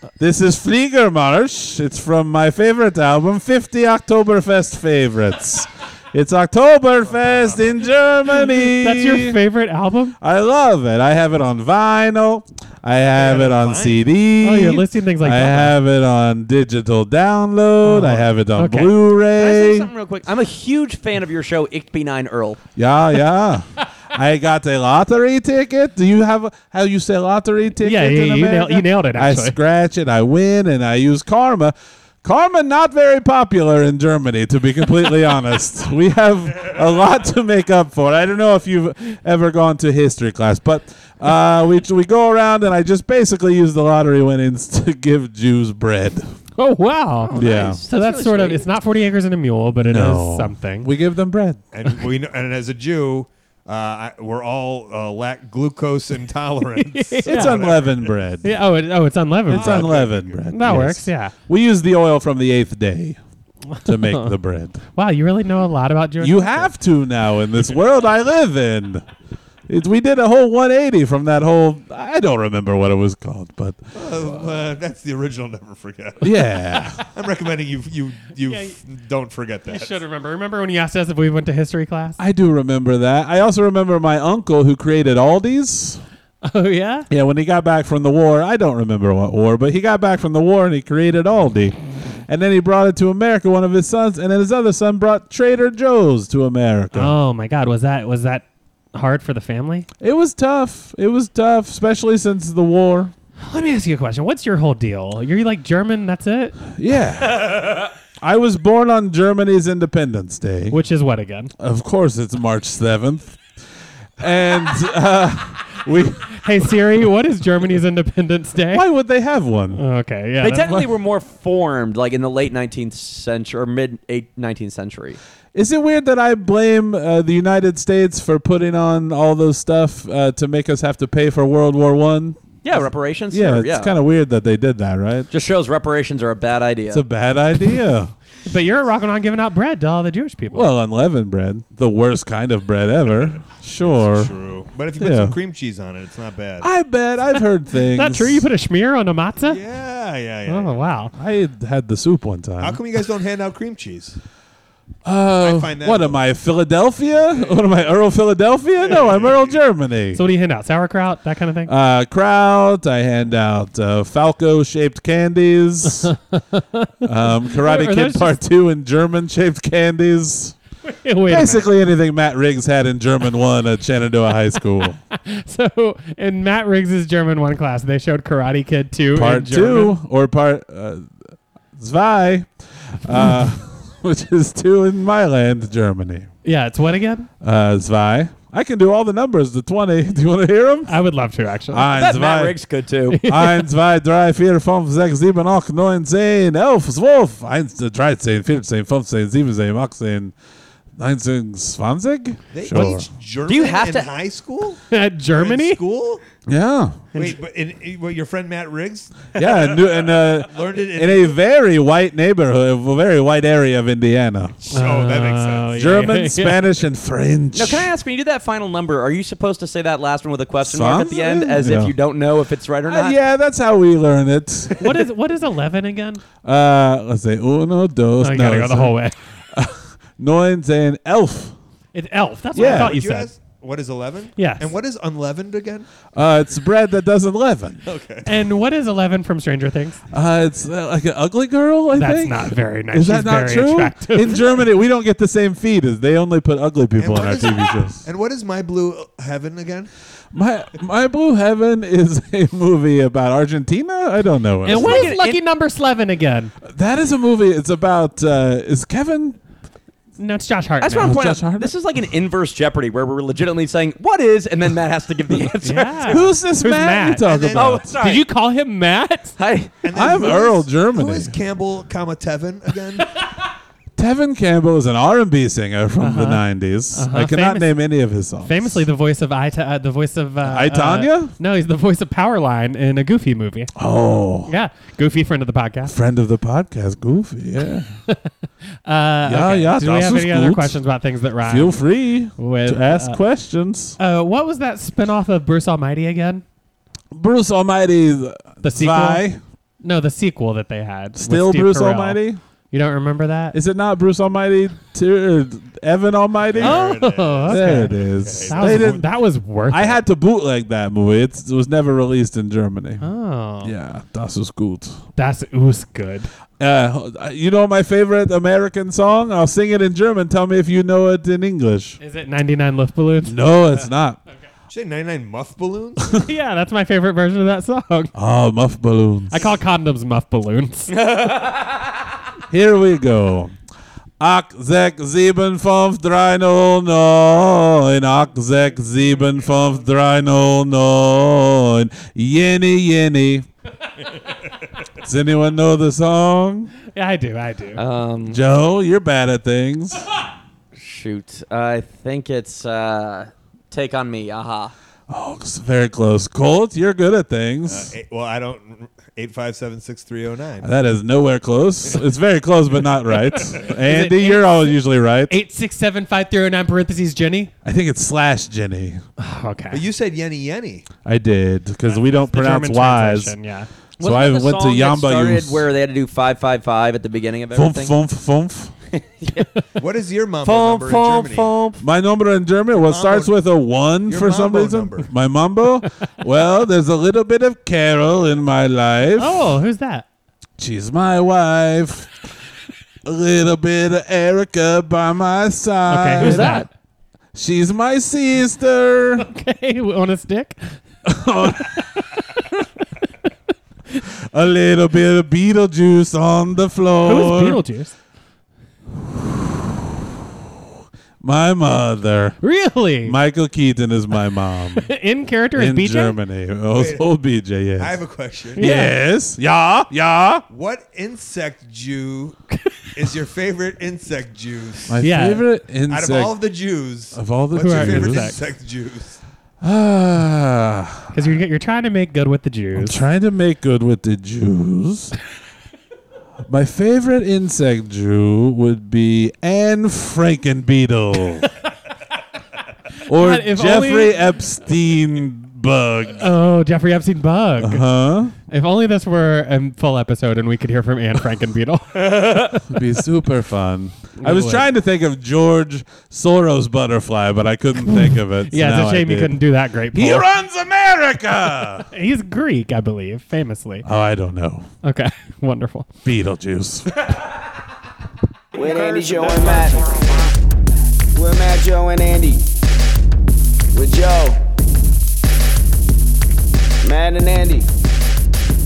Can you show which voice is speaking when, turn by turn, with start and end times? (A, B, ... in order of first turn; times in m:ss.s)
0:00.2-0:09.4 A
0:08.8-0:10.2 B
0:10.2-0:19.9 A
0:13.1-0:14.0 C
0:14.4-0:15.8 B
0:17.8-0:18.9 B
0:19.4-0:22.6 D
0:22.8-0:46.3 A
0:27.8-0:29.6 B
0:46.6-0:50.9 B
0:47.3-0:48.7 D
0:47.4-0:47.8 A
0:49.8-0:51.6 A
0:51.7-0:58.1 C
0:56.9-0:57.6 B
0:57.3-0:58.6 A
0:58.4-0:59.9 B
0:59.5-1:03.2 A
0:59.5-1:00.5 C
1:00.5-1:01.3 B
1:03.7-1:04.3 B
1:03.8-1:04.8 A
1:05.0-1:06.7 B
1:06.2-1:09.0 A
1:09.7-1:13.8 A
1:14.0-1:16.5 C
1:16.2-1:17.0 A
1:17.1-1:20.0 C
1:18.5-1:18.8 B
1:19.7-1:22.2 B
1:22.2-1:26.0 A
1:26.4-1:27.1 B
1:27.1-1:31.8 A
1:32.3-1:37.2 A
1:36.9-1:39.9 B
1:40.0-1:43.1 A
1:43.4-1:46.6 B
1:46.8-1:47.7 A
1:48.2-1:50.8 A
1:50.7-1:51.5 B
1:51.6-1:53.4 A
1:54.2-1:56.4 A
1:56.4-1:58.8 B
1:58.7-1:59.8 A
1:59.7-2:00.9 B
2:00.4-2:05.2 D
2:05.5-2:12.4 A
2:12.6-2:14.0 D
2:13.3-2:15.3 A
2:15.3-2:17.0 D
2:16.9-2:18.1 A
2:18.5-2:20.7 B
2:20.5-2:24.3 A
2:23.8-2:26.7 C
2:25.0-2:25.4 A
2:26.6-2:28.5 A
2:27.9-2:29.6 B
2:29.4-2:31.1 C
2:30.5-2:31.1 B
2:31.2-2:32.8 A
2:32.6-2:34.2 C
2:35.0-2:40.2 A
2:35.4-2:36.2 C
2:37.2-2:38.0 C
2:38.8-2:39.6 C
2:40.2-2:41.7 B
2:41.7-2:46.1 A
2:46.0-2:46.9 B
2:47.0-2:50.6 A
2:47.5-2:48.4 B
2:50.9-2:51.7 B
2:51.3-2:55.0 A
2:55.1-3:00.0 B
2:59.1-3:01.1 A
3:01.8-3:02.5 A
3:03.0-3:06.3 A
3:06.4-3:07.3 B
3:07.4-3:11.0 A
3:10.9-3:11.9 B
3:11.7-3:12.6 A
3:11.9-3:13.2 D
3:13.1-3:13.7 B
3:13.2-3:20.3 A
3:21.0-3:23.1 A
3:22.5-3:24.8 C
3:23.4-3:24.1 D
3:24.9-3:25.8 B
3:25.3-3:26.2 C
3:26.5-3:27.0 A
3:27.1-3:29.8 C
3:29.4-3:34.6 A
3:30.4-3:31.4 C
3:34.6-3:35.9 C
3:34.7-3:36.7 B
3:35.7-3:37.9 A
3:37.5-3:43.2 D
3:40.6-3:42.0 A
3:42.8-3:44.9 A
3:44.8-3:46.2 B
3:46.4-3:49.0 A
3:48.2-3:49.2 B
3:49.5-3:51.6 A
3:51.9-3:53.3 B
3:52.5-3:53.0 A
3:52.6-3:55.9 C
3:54.4-3:54.7 B
3:56.2-3:57.8 A
3:57.8-3:58.3 C
3:58.2-4:00.0 B
4:00.1-4:08.0 A
4:02.0-4:04.6 B
4:07.0-4:09.9 C
4:10.3-4:15.2 A
4:14.6-4:16.5 B
4:14.6-4:15.4 D
4:16.7-4:19.4 A
4:20.2-4:21.2 B
4:20.8-4:26.2 D
4:21.0-4:21.7 A
4:25.6-4:27.3 B
4:26.0-4:28.0 A
4:27.2-4:27.8 C
4:27.5-4:28.3 D
4:28.0-4:29.4 B
4:29.4-4:29.8 D
4:29.8-4:33.1 C
4:29.9-4:31.4 A
4:34.0-4:38.9 A
4:36.0-4:37.8 B
4:38.4-4:43.7 B
4:40.4-4:41.3 A
4:43.8-4:44.5 A
4:44.5-4:46.0 B
4:45.9-4:47.9 A
4:48.8-4:53.2 B
4:49.3-4:50.8 A
4:51.4-4:54.0 A
4:54.0-4:56.4 B
4:57.1-4:59.4 A
4:58.6-4:59.2 B
4:59.8-5:03.6 B
5:01.2-5:02.4 A
5:03.5-5:06.9 A
5:06.5-5:09.1 C
5:06.6-5:10.0 B
5:07.5-5:09.1 A
5:09.7-5:13.1 A
5:13.0-5:13.7 B
5:13.6-5:15.0 A
5:15.2-5:16.3 B
5:16.6-5:22.0 A
5:22.0-5:23.4 B
5:23.2-5:24.2 A
5:24.7-5:26.2 C
5:26.2-5:28.1 B
5:28.1-5:29.5 A
5:29.3-5:30.9 B
5:30.9-5:31.8 D
5:32.5-5:33.6 A
5:34.2-5:43.5 A
5:45.0-5:46.7 A
5:46.9-5:47.8 B
5:47.8-5:48.4 D
5:48.3-5:50.0 A
5:50.8-5:54.7 D
5:55.1-5:57.9 A
5:57.7-6:00.7 C
6:00.6-6:05.4 A
6:03.5-6:07.5 B
6:07.6-6:09.0 A
6:09.2-6:09.8 B
6:09.7-6:10.9 C
6:11.0-6:13.4 A
6:11.9-6:13.7 B
6:14.0-6:15.7 A
6:14.0-6:18.0 D
6:17.5-6:18.7 A
6:18.9-6:19.6 D
6:19.8-6:21.5 C
6:20.4-6:21.8 D
6:21.8-6:29.6 A
6:22.8-6:23.3 C
6:24.1-6:25.1 C
6:29.2-6:30.1 B
6:30.6-6:32.1 A
6:33.0-6:36.7 A
6:35.9-6:36.7 B
6:37.3-6:39.3 A
6:39.2-6:40.8 B
6:41.1-6:41.9 A
6:41.4-6:43.1 B
6:44.1-6:47.6 A
6:47.0-6:48.0 B
6:51.2-6:52.4 A
6:52.4-6:53.2 B
6:53.0-6:54.9 A
6:54.8-6:56.2 B
6:55.6-6:58.0 A
6:56.7-6:57.0 C
6:57.8-6:58.8 C
6:58.6-6:59.0 B
6:58.6-7:00.5 A
7:00.5-7:02.4 C
7:03.0-7:05.0 C
7:04.9-7:06.4 A
7:05.0-7:05.5 B
7:05.9-7:09.2 C
7:07.1-7:08.4 A
7:07.6-7:08.4 B
7:09.6-7:11.3 A
7:11.1-7:13.0 B
7:12.8-7:15.2 A
7:16.5-7:21.5 A
7:23.1-7:26.3 A
7:23.1-7:24.3 B
7:26.1-7:33.0 B
7:27.6-7:28.4 A
7:32.5-7:41.9 A
7:34.2-7:34.7 B
7:37.9-7:40.3 B
7:41.9-7:43.9 B
7:43.8-7:44.7 A
7:44.8-7:45.9 B
7:46.0-7:46.9 A
7:48.5-7:49.9 E
7:48.6-7:49.8 D
7:51.1-7:52.4 E
7:53.7-7:54.4 E
7:56.8-7:57.7 E